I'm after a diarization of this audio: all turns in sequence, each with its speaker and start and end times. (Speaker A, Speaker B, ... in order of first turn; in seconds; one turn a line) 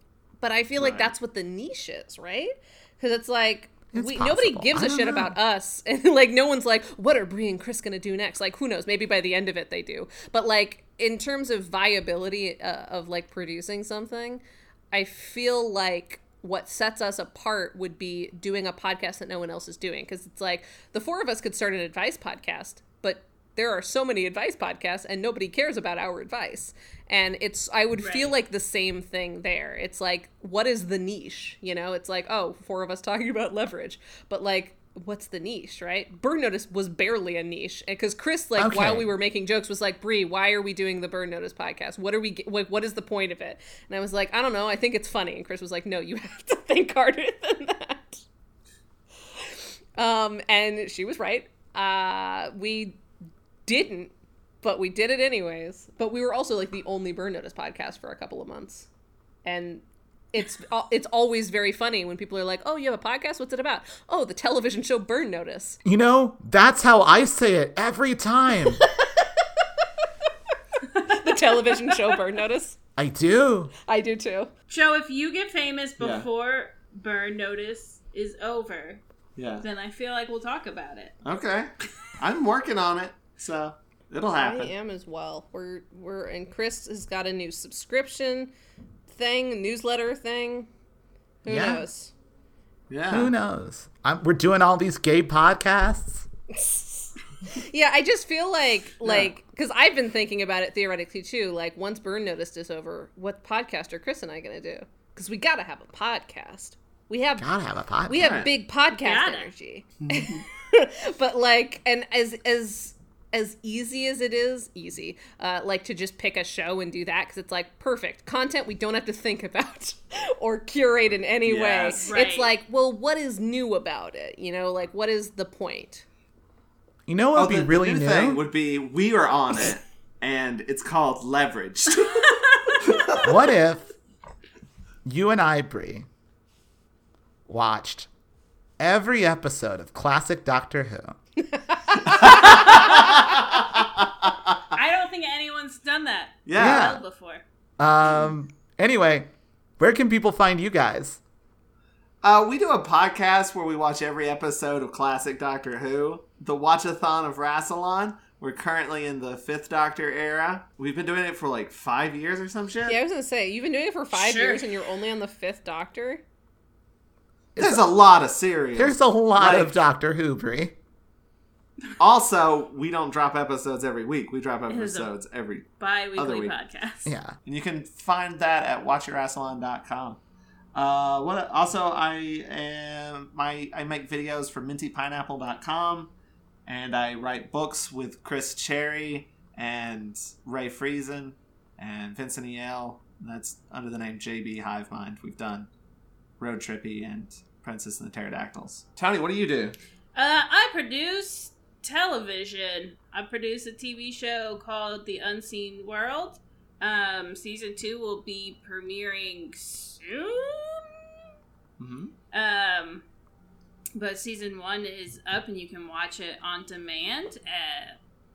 Speaker A: 0.4-48.2
Speaker B: 0.8-1.1
Speaker C: 3.9-5.3
Speaker D: 28.0-28.3
Speaker C: 38.6-39.1
Speaker A: 49.5-53.0
Speaker A: 53.7-58.9
Speaker A: 59.5-65.8
Speaker C: 65.8-68.8
Speaker A: 68.8-69.4
Speaker D: 70.9-71.3
Speaker A: 71.1-72.8
Speaker C: 73.0-73.7
Speaker A: 73.9-74.5
Speaker D: 74.7-79.0
Speaker B: 76.0-76.3
Speaker B: 79.4-79.7
Speaker D: 79.6-81.2
Speaker B: 81.2-84.7
Speaker A: 84.3-88.5
Speaker A: 89.1-90.7
Speaker A: 91.4-92.1
Speaker C: 91.5-91.8
Speaker B: 92.9-93.3
Speaker C: 93.1-96.3
Speaker A: 96.5-107.5
Speaker B: 99.0-99.3
Speaker C: 107.4-108.5
Speaker A: 108.1-126.1
Speaker B: 108.2-108.5
Speaker D: 108.9-109.5
Speaker B: 110.0-110.5
Speaker B: 121.5-122.1
Speaker D: 122.0-122.5
Speaker C: 127.1-128.4
Speaker B: 127.4-133.3
Speaker C: 133.2-133.9
Speaker C: 135.1-136.1
Speaker C: 137.5-138.1
Speaker C: 138.8-141.2
Speaker A: 141.5-142.8
Speaker B: 142.0-144.8
Speaker D: 144.7-147.4
Speaker B: 146.5-147.0
Speaker C: 146.6-147.0
Speaker C: 147.8-151.2
Speaker B: 152.2-163.0
Speaker A: 162.9-166.2
Speaker D: 164.1-164.8
Speaker C: 167.6-167.8
Speaker B: 167.6-169.8
Speaker C: 168.8-170.8
Speaker B: 172.0-176.5
Speaker D: 174.7-175.1
Speaker D: 175.8-177.1
Speaker C: 177.1-177.4
Speaker B: 177.4-180.2
Speaker B: 180.8-186.1
Speaker B: 186.7-195.7
Speaker B: 196.4-199.8
Speaker D: 200.2-211.2
Speaker B: 211.8-212.1
Speaker D: 212.3-213.0
Speaker D: 213.9-218.0